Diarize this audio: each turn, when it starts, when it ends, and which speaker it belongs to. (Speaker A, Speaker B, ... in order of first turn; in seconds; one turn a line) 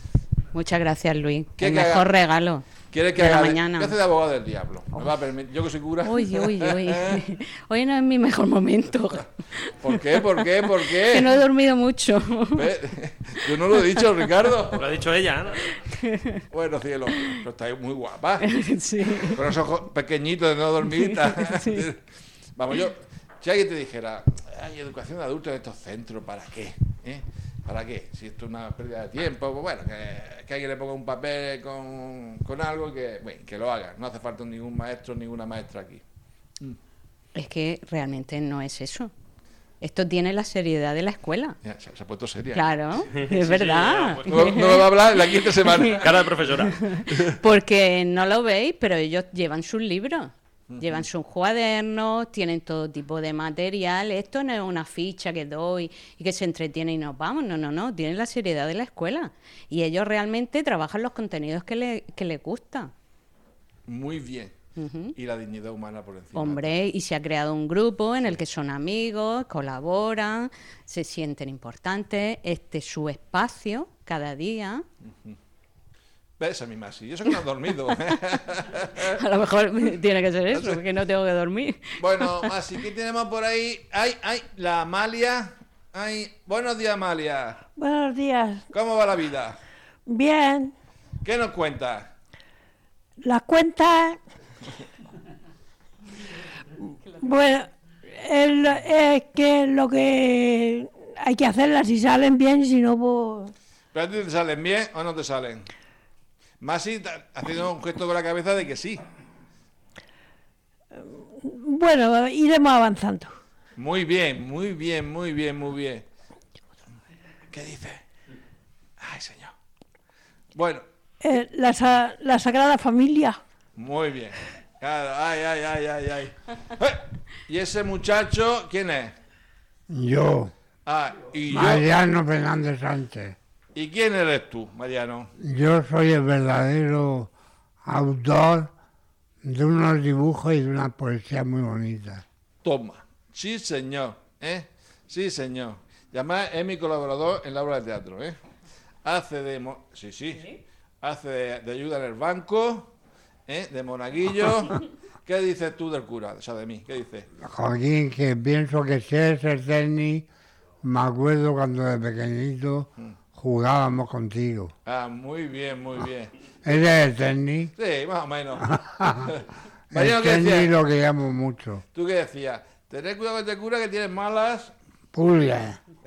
Speaker A: 0.5-4.0
Speaker B: 1.6-2.1
Speaker B: 2.9-7.2
Speaker A: 6.0-10.3
Speaker B: 9.8-11.3
Speaker A: 10.9-12.7
Speaker B: 12.6-14.8
Speaker A: 13.7-14.0
Speaker C: 14.8-15.8
Speaker A: 15.9-16.4
Speaker B: 16.5-18.5
Speaker A: 18.4-19.5
Speaker B: 19.2-22.0
Speaker A: 20.8-21.9
Speaker B: 22.6-36.0
Speaker A: 37.4-39.1
Speaker A: 39.8-41.6
Speaker B: 41.6-42.7
Speaker A: 42.5-46.0
Speaker C: 43.1-44.6
Speaker B: 44.3-46.1
Speaker C: 45.8-46.8
Speaker A: 46.6-62.9
Speaker B: 50.7-51.0
Speaker B: 63.9-64.5
Speaker A: 64.8-65.2
Speaker B: 65.2-66.7
Speaker A: 66.3-74.8
Speaker B: 76.4-79.0
Speaker A: 79.0-82.5
Speaker B: 80.5-80.8
Speaker B: 82.0-87.6
Speaker D: 87.8-88.7
Speaker B: 88.7-89.6
Speaker D: 90.1-90.7
Speaker B: 91.2-92.1
Speaker D: 93.2-94.2
Speaker D: 97.1-103.5
Speaker B: 103.9-105.7
Speaker B: 106.6-109.0
Speaker D: 110.9-113.4
Speaker B: 113.8-116.1
Speaker B: 117.5-118.0
Speaker B: 119.0-119.5
Speaker B: 120.5-120.8
Speaker D: 121.2-123.4
Speaker B: 123.8-129.1
Speaker E: 129.9-130.5
Speaker B: 130.9-131.9
Speaker E: 131.5-133.4
Speaker B: 133.8-135.3
Speaker E: 135.4-137.3
Speaker E: 137.8-138.7
Speaker E: 139.4-142.2
Speaker B: 142.6-148.4
Speaker B: 149.1-152.9
Speaker B: 153.5-157.3
Speaker E: 157.4-160.3
Speaker E: 160.8-164.7
Speaker B: 164.9-166.3
Speaker E: 166.6-167.7
Speaker B: 167.8-170.8
Speaker E: 168.9-169.3
Speaker E: 169.9-171.8
Speaker B: 171.9-174.7
Speaker E: 175.1-175.8